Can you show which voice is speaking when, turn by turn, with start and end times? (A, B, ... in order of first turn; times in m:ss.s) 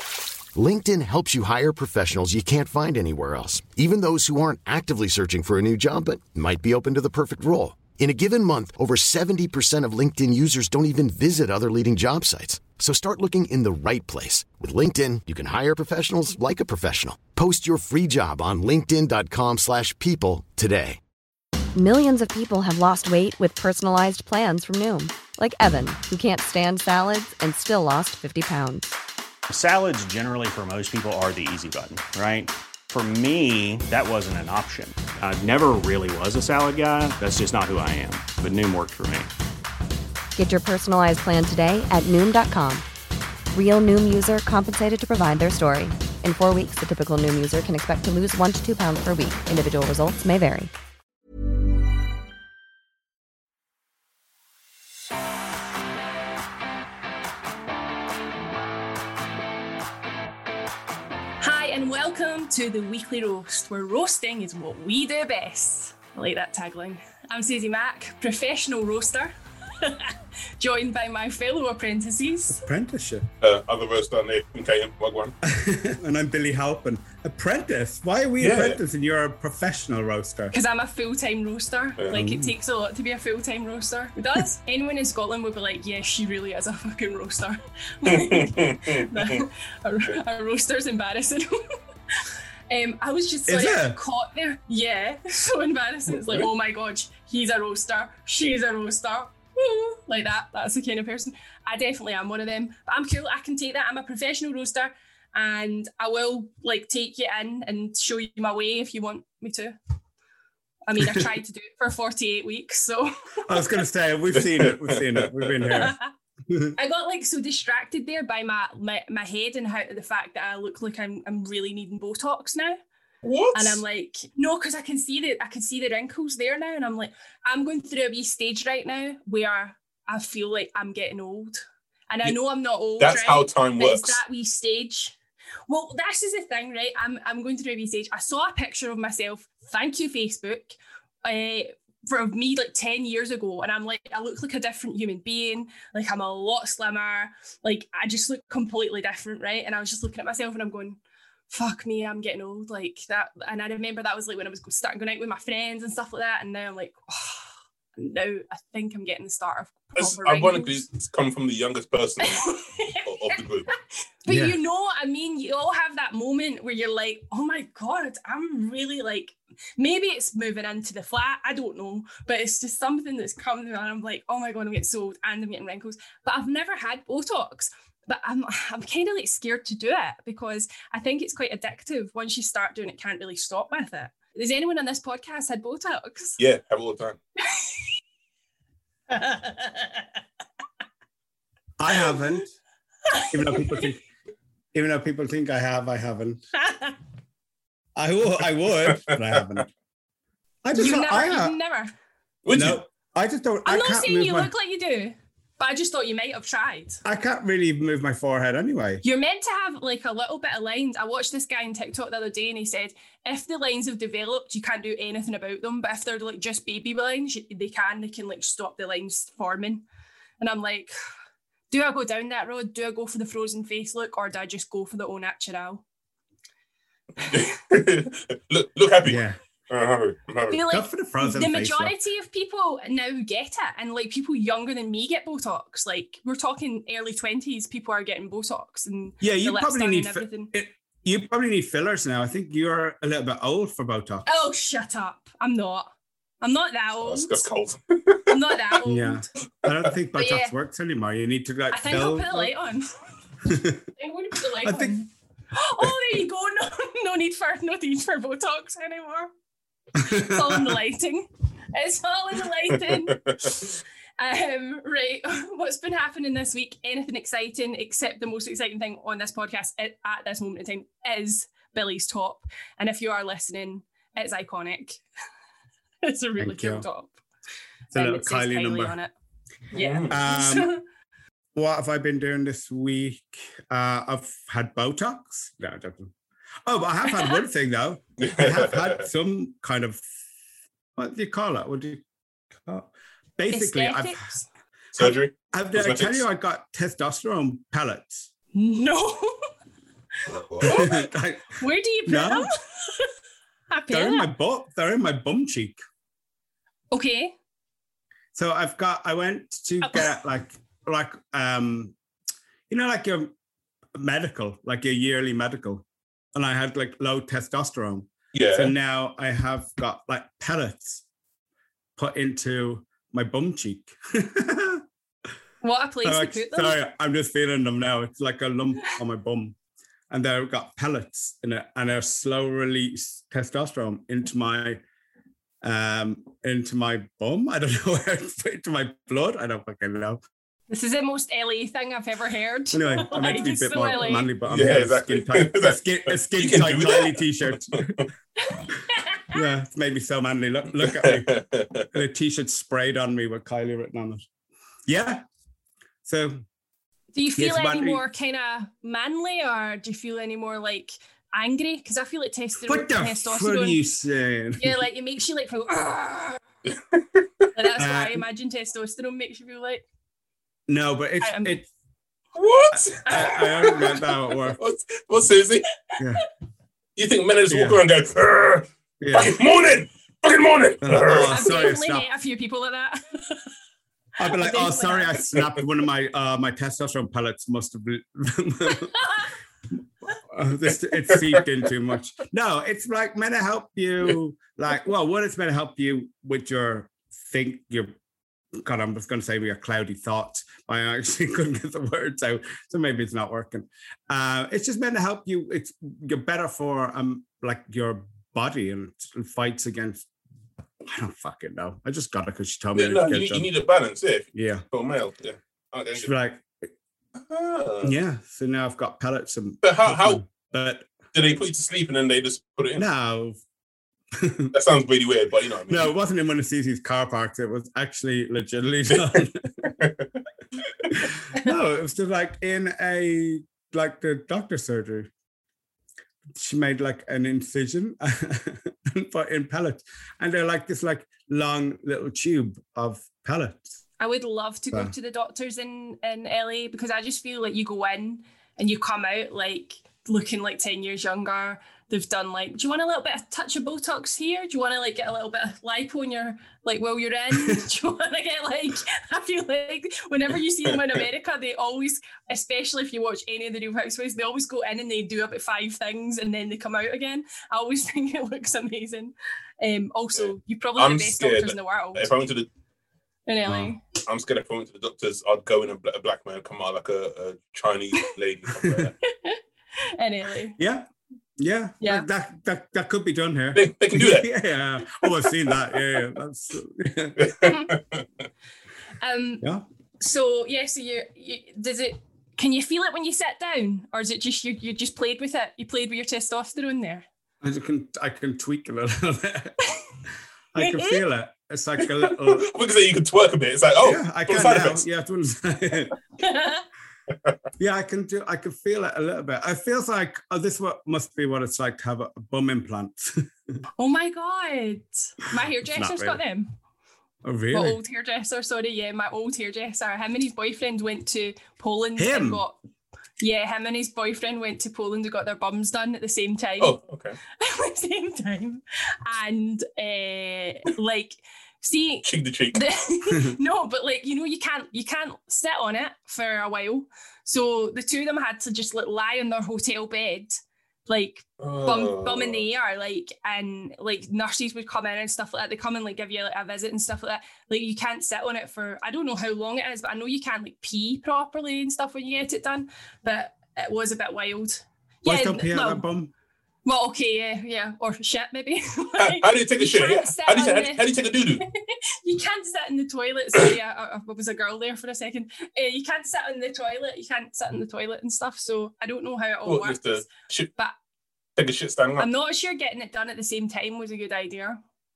0:00.5-0:21.0 A
0:21.7-0:28.9 B
0:29.5-0:39.3 C
0:40.4-0:42.8 B
0:43.5-0:50.7 B
1:01.4-1:12.6 D
1:12.5-1:13.3 E
1:13.4-1:15.3 F
1:15.4-1:20.5 E
1:18.4-1:18.8 F
1:20.5-1:31.6 D
1:22.1-1:22.5 E
1:28.1-1:29.4 F
1:32.7-1:49.8 D
1:33.5-1:34.0 E
1:50.8-1:53.6 D
1:51.0-1:51.2 E
1:53.5-1:55.9 E
1:54.4-1:55.8 F
1:55.7-1:56.1 D
1:56.5-1:56.7 E
1:56.8-2:02.8 D
2:03.2-2:03.8 F
2:03.5-2:15.2 D
2:13.0-2:14.2 F
2:15.7-2:31.0 D
2:31.5-2:40.8 D
2:40.0-2:42.5 F
2:42.2-2:43.4 D
2:43.0-2:43.7 F
2:44.2-3:06.4 D
2:44.3-2:44.6 E
3:06.4-3:07.2 F
3:09.1-3:09.9 D
3:11.8-3:12.5 E
3:13.1-3:13.8 D
3:13.3-3:14.0 E
3:14.7-3:16.4 E
3:16.6-3:16.9 D
3:18.0-3:19.7 E
3:18.8-3:19.4 F
3:20.6-3:21.6 E
3:20.7-3:21.9 D
3:22.4-3:22.8 F
3:22.5-3:24.5 E
3:23.6-3:27.0 D
3:27.0-3:29.0 E
3:29.0-3:39.8 D
3:40.4-3:40.9 D
3:41.7-3:45.8 D
3:47.2-3:50.6 F
3:49.0-3:49.4 E
3:50.5-4:00.5 D
3:50.7-3:51.9 E
3:59.2-4:04.2 E
4:04.2-4:05.9 D
4:06.4-4:07.4 D
4:07.0-4:08.7 F
4:08.3-4:09.2 D
4:08.8-4:12.5 E
4:10.2-4:10.5 D
4:11.7-4:12.9 D
4:13.4-4:13.8 E
4:14.0-4:19.3 D
4:14.6-4:15.0 E
4:20.0-4:20.8 E
4:20.0-4:23.6 D
4:22.9-4:23.5 F
4:24.2-4:35.0 D
4:36.0-4:37.2 D
4:36.4-4:36.9 E
4:37.9-4:39.1 D
4:37.9-4:39.0 E
4:39.7-4:40.8 D
4:39.8-4:40.1 F
4:40.1-4:40.8 E
4:41.5-4:46.1 E
4:46.6-4:50.0 E
4:47.1-4:47.4 D
4:48.2-4:49.1 F
4:51.0-4:52.0 E
4:52.6-4:54.1 E
4:53.5-4:54.5 D
4:54.9-4:56.3 F
4:55.0-4:58.3 E
4:58.5-4:59.5 D
5:00.3-5:00.8 F
5:00.6-5:02.5 E
5:00.6-5:00.9 D
5:01.6-5:03.1 D
5:03.7-5:04.3 D
5:03.9-5:05.8 E
5:06.9-5:07.3 D
5:08.3-5:11.9 E
5:09.8-5:10.1 D
5:12.7-5:13.3 E
5:13.9-5:15.8 E
5:16.3-5:21.0 E
5:18.3-5:18.7 F
5:22.0-5:24.8 E
5:25.6-5:26.8 D
5:26.0-5:29.5 E
5:30.1-5:34.8 E
5:35.6-5:40.2 E
5:40.7-5:44.3 D
5:42.7-5:48.0 E
5:44.4-5:48.0 F
5:48.5-5:49.3 D
5:49.3-5:51.3 E
5:50.8-5:51.9 F
5:51.9-5:54.2 E
5:54.8-5:55.2 E
5:56.0-5:56.4 E
5:57.1-6:03.8 D
5:57.4-5:58.0 E
6:02.6-6:04.8 E
6:04.6-6:06.4 D
6:07.5-6:09.8 D
6:07.8-6:08.2 E
6:10.7-6:11.6 E
6:11.2-6:11.6 D
6:12.4-6:15.6 F
6:12.7-6:14.6 E
6:16.0-6:16.2 E
6:17.0-6:21.5 F
6:17.5-6:17.8 E
6:19.0-6:19.4 E
6:20.8-6:22.0 E
6:21.2-6:23.4 D
6:24.2-6:28.9 E
6:24.4-6:25.2 D
6:29.0-6:29.3 D
6:30.3-6:37.9 E
6:31.1-6:31.4 F
6:38.5-6:50.0 E
6:50.8-6:53.5 E
6:52.7-6:56.1 F
6:54.3-6:54.6 E
6:56.0-6:56.7 E
6:57.2-6:57.9 F
6:57.8-7:00.9 E
6:59.6-7:00.2 F
7:01.1-7:02.8 F
7:02.8-7:03.4 E
7:04.1-7:04.5 E
7:04.5-7:05.9 F
7:05.7-7:09.6 E
7:09.8-7:10.0 F
7:10.9-7:15.1 E
7:16.3-7:23.8 E
7:24.0-7:52.1 D
7:50.1-7:52.5 F
7:53.3-7:53.8 D
7:53.4-7:53.7 E
7:54.0-7:58.9 F
7:58.6-7:58.9 E
7:59.0-7:59.4 D
8:00.0-8:00.6 D
8:00.6-8:07.3 E
8:01.8-8:02.0 D
8:03.5-8:04.3 F
8:07.2-8:08.0 F
8:09.0-8:09.4 D
8:10.0-8:17.0 D
8:17.4-8:19.6 E
8:20.5-8:22.4 E
8:20.6-8:21.0 D
8:21.8-8:24.8 F
8:23.8-8:25.9 E
8:26.2-8:26.6 D
8:27.6-8:33.6 E
8:33.8-8:36.5 D
8:35.6-8:36.2 E
8:37.2-8:37.8 E
8:37.5-8:42.6 D
8:42.0-8:42.4 E
8:43.2-8:46.8 D
8:46.6-8:47.2 F
8:47.4-9:15.9 D
8:52.0-8:52.6 F
9:01.4-9:02.4 F
9:15.0-9:16.1 E
9:16.6-9:20.9 D
9:19.0-9:21.4 F
9:22.0-9:30.0 D
9:29.4-9:30.5 F
9:31.4-9:32.1 F
9:32.0-9:34.6 D